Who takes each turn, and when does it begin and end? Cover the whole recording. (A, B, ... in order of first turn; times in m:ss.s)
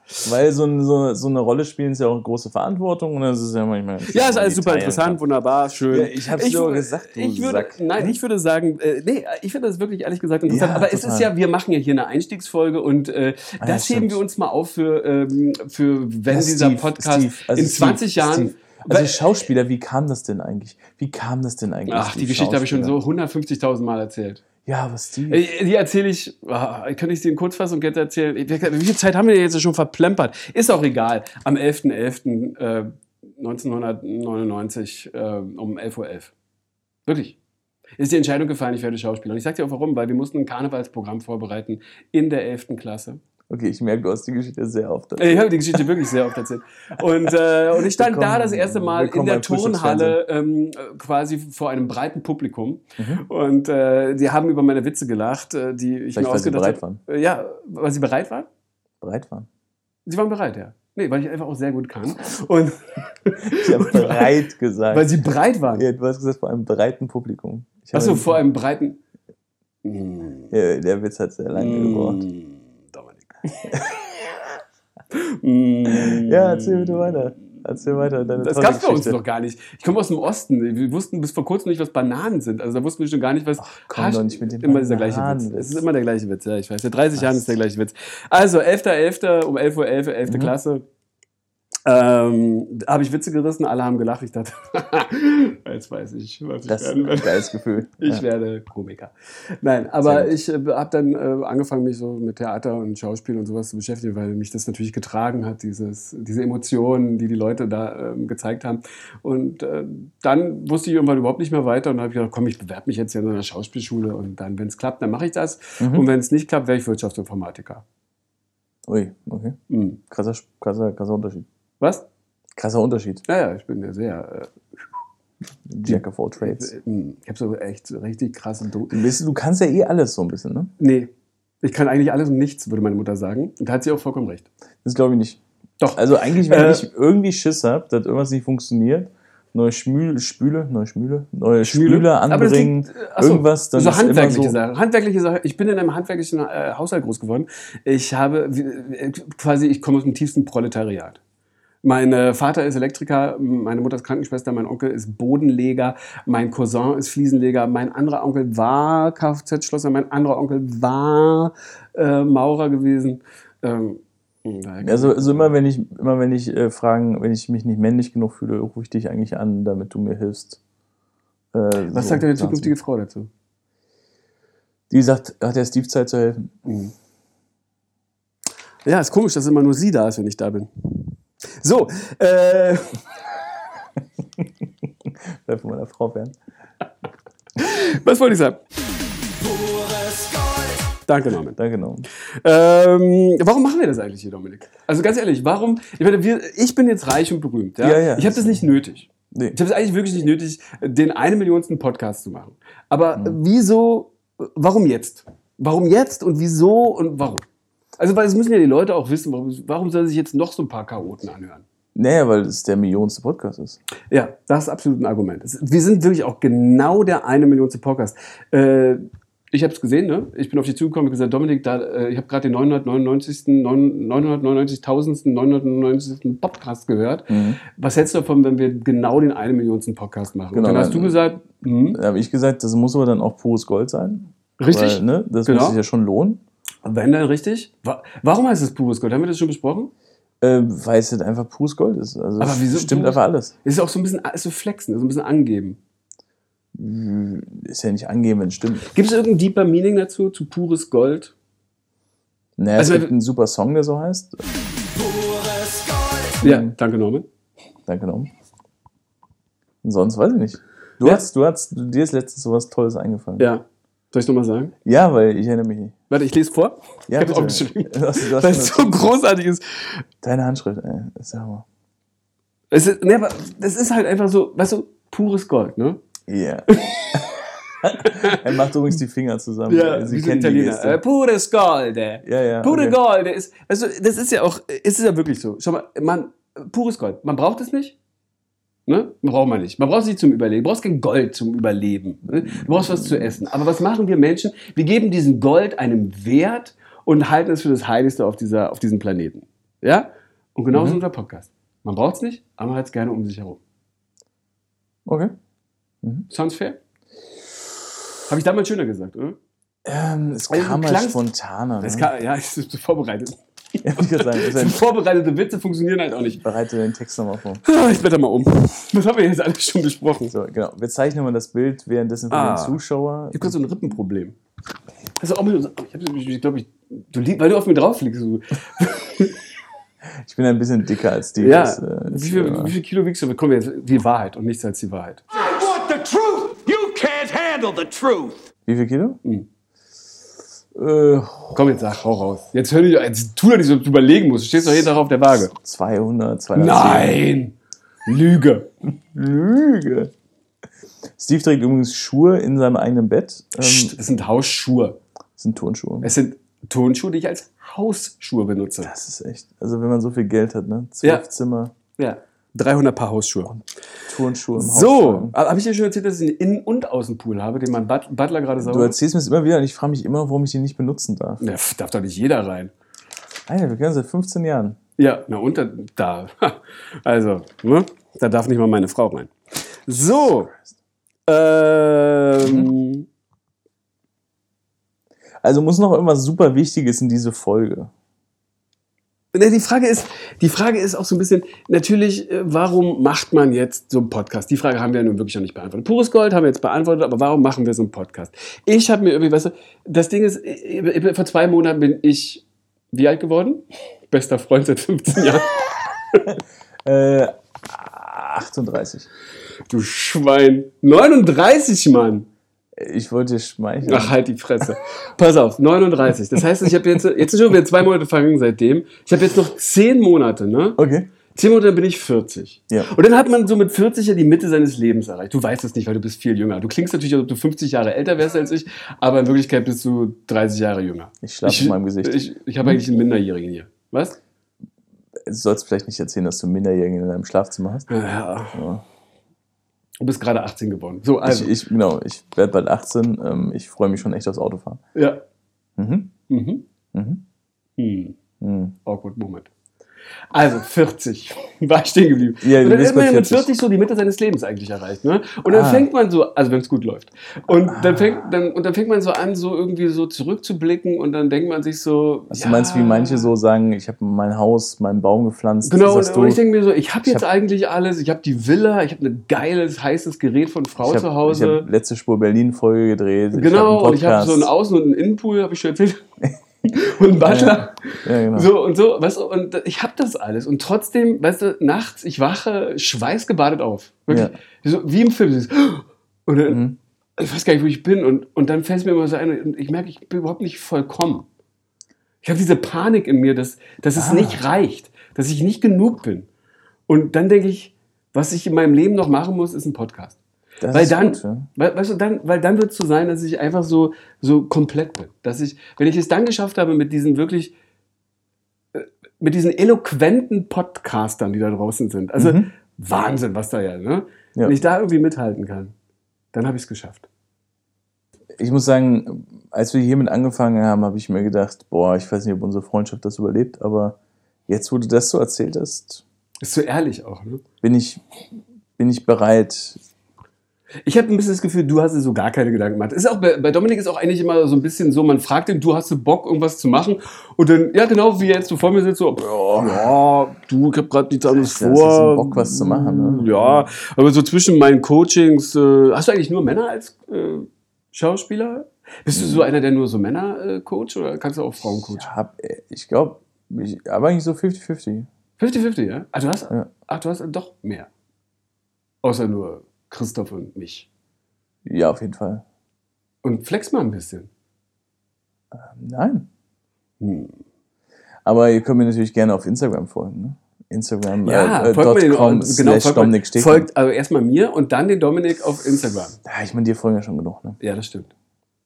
0:00.2-0:05.2 A
0:04.0-0:19.2 B
0:05.9-0:08.2 A
0:10.5-0:11.3 A
0:13.6-0:14.2 A
0:16.3-0:23.0 A
0:21.9-0:24.4 B
0:24.6-0:25.5 A
0:25.3-0:36.3 B
0:37.1-0:37.4 B
0:38.0-0:43.2 B
0:43.5-0:45.9 A
0:45.2-0:58.5 B
0:47.3-0:50.2 A
0:53.0-0:53.2 A
0:56.1-0:57.0 A
0:59.0-0:59.5 A
1:00.1-1:04.3 B
1:03.5-1:05.2 A
1:04.9-1:05.8 B
1:05.7-1:08.4 A
1:07.9-1:09.0 B
1:09.8-1:10.5 B
1:10.5-1:12.2 A
1:11.5-1:13.9 B
1:15.1-1:17.4 B
1:15.9-1:19.2 A
1:18.4-1:30.8 B
1:23.6-1:25.8 A
1:27.2-1:27.6 A
1:30.3-1:30.5 A
1:31.9-1:37.4 B
1:36.7-1:38.2 A
1:38.0-1:57.8 B
1:40.0-1:40.3 A
1:55.8-1:56.1 A
1:58.9-1:59.6 A
1:59.7-2:00.0 B
2:00.1-2:01.5 A
2:01.8-2:02.1 B
2:02.6-2:03.2 A
2:03.3-2:04.6 B
2:05.7-2:06.7 A
2:05.8-2:09.0 B
2:08.9-2:10.7 A
2:10.8-2:11.1 B
2:11.6-2:14.5 B
2:14.8-2:15.4 A
2:15.8-2:16.9 B
2:15.9-2:24.6 A
2:21.6-2:31.2 B
2:31.8-2:45.5 B
2:44.8-2:50.6 A
2:51.5-2:52.7 A
2:51.9-2:53.3 B
2:54.9-2:56.5 A
2:56.7-2:56.9 B
2:58.8-3:03.0 B
3:04.4-3:06.4 A
3:07.6-3:08.6 B
3:09.5-3:11.6 B
3:11.6-3:12.1 A
3:12.4-3:27.4 B
3:17.8-3:18.7 A
3:19.3-3:19.6 A
3:28.0-3:31.6 B
3:32.0-3:33.8 A
3:34.1-3:52.0 B
3:47.3-3:47.6 A
3:50.5-3:51.2 A
3:51.9-3:56.4 A
3:54.6-3:55.8 B
3:56.8-3:59.9 B
4:00.4-4:03.6 A
4:02.4-4:05.8 B
4:06.8-4:08.9 A
4:08.9-4:11.3 B
4:12.6-4:14.4 A
4:12.8-4:13.1 B
4:16.4-4:17.3 B
4:16.4-4:16.7 A
4:17.9-4:18.3 A
4:19.8-4:23.5 A
4:23.4-4:24.7 B
4:24.8-4:26.0 A
4:26.1-4:30.0 B
4:27.1-4:29.1 A
4:30.2-4:31.6 A
4:32.7-4:36.0 B
4:36.3-4:37.3 A
4:36.7-4:38.4 B
4:37.8-4:41.0 A
4:39.7-4:48.0 B
4:42.2-4:43.0 A
4:48.9-5:03.6 B
4:52.3-4:53.4 A
5:00.7-5:01.0 A
5:05.1-5:05.4 A
5:06.3-5:06.8 B
5:08.3-5:09.4 B
5:09.8-5:12.1 A
5:10.5-5:11.2 B
5:11.8-5:16.4 B
5:13.8-5:14.8 A
5:16.4-5:17.6 A
5:17.6-5:20.4 B
5:20.3-5:23.6 A
5:22.3-5:22.8 B
5:23.3-5:24.4 B
5:25.2-5:29.4 B
5:30.2-5:32.7 A
5:31.4-5:35.2 B
5:35.4-5:38.4 C
5:38.7-5:39.2 A
5:40.8-5:41.6 A
5:41.6-5:45.5 B
5:45.5-5:47.2 A
5:46.6-5:48.7 B
5:49.1-5:50.1 A
5:51.2-5:54.0 A
5:53.6-5:55.0 B
5:55.4-5:56.1 A
5:56.0-5:58.9 B
5:58.8-6:01.7 A
6:02.0-6:03.5 B
6:03.5-6:05.4 A
6:04.6-6:09.0 B
6:08.6-6:11.4 A
6:11.4-6:12.7 B
6:13.5-6:14.8 A
6:15.0-6:19.3 B
6:19.9-6:20.5 B
6:20.3-6:20.6 A
6:21.3-6:23.1 B
6:22.4-6:22.7 A
6:25.4-6:27.9 A
6:29.3-6:46.2 B
6:46.3-6:49.1 A
6:49.7-6:52.3 B
6:52.8-6:54.2 A
6:53.8-7:00.8 B
7:00.8-7:01.1 A
7:01.3-7:14.2 B
7:11.2-7:12.8 A
7:15.2-7:17.9 A
7:17.9-7:18.6 B
7:18.5-7:18.8 A
7:20.0-7:21.5 B
7:21.2-7:24.8 A
7:25.0-7:25.2 B
7:25.8-7:26.1 A
7:26.3-7:26.6 B
7:26.9-7:27.2 A
7:27.8-7:28.2 B
7:28.4-7:28.8 A
7:28.8-7:29.5 B
7:30.3-7:43.3 B
7:32.4-7:33.5 A
7:35.5-7:35.9 A
7:37.5-7:38.3 A
7:42.3-7:46.4 A
7:45.6-7:51.7 B
7:50.8-7:54.5 A
7:53.3-7:56.0 B
7:56.6-8:06.6 B
7:57.2-7:58.5 A
8:06.5-8:06.8 A
8:07.2-8:11.3 B
8:12.2-8:16.3 B
8:14.0-8:14.4 A
8:16.9-8:20.2 B
8:20.6-8:21.5 A
8:20.7-8:27.5 B
8:28.7-8:35.7 B
8:32.2-8:32.5 A
8:36.3-8:37.1 B
8:38.4-8:44.0 A
8:44.5-8:46.0 A
8:46.4-8:47.4 B
8:47.6-8:48.0 A
8:48.8-8:49.8 A
8:50.9-9:12.1 B
8:59.2-8:59.9 A
9:01.3-9:03.7 A
9:09.1-9:09.5 A
9:11.6-9:15.1 A
9:15.4-9:17.9 B
9:19.0-9:20.9 B
9:21.7-9:22.4 A
9:23.2-9:24.3 B
9:25.5-9:26.3 A
9:27.0-9:27.4 B
9:28.2-9:33.7 A
9:31.2-9:36.2 B
9:36.2-9:37.6 A
9:37.6-9:38.1 B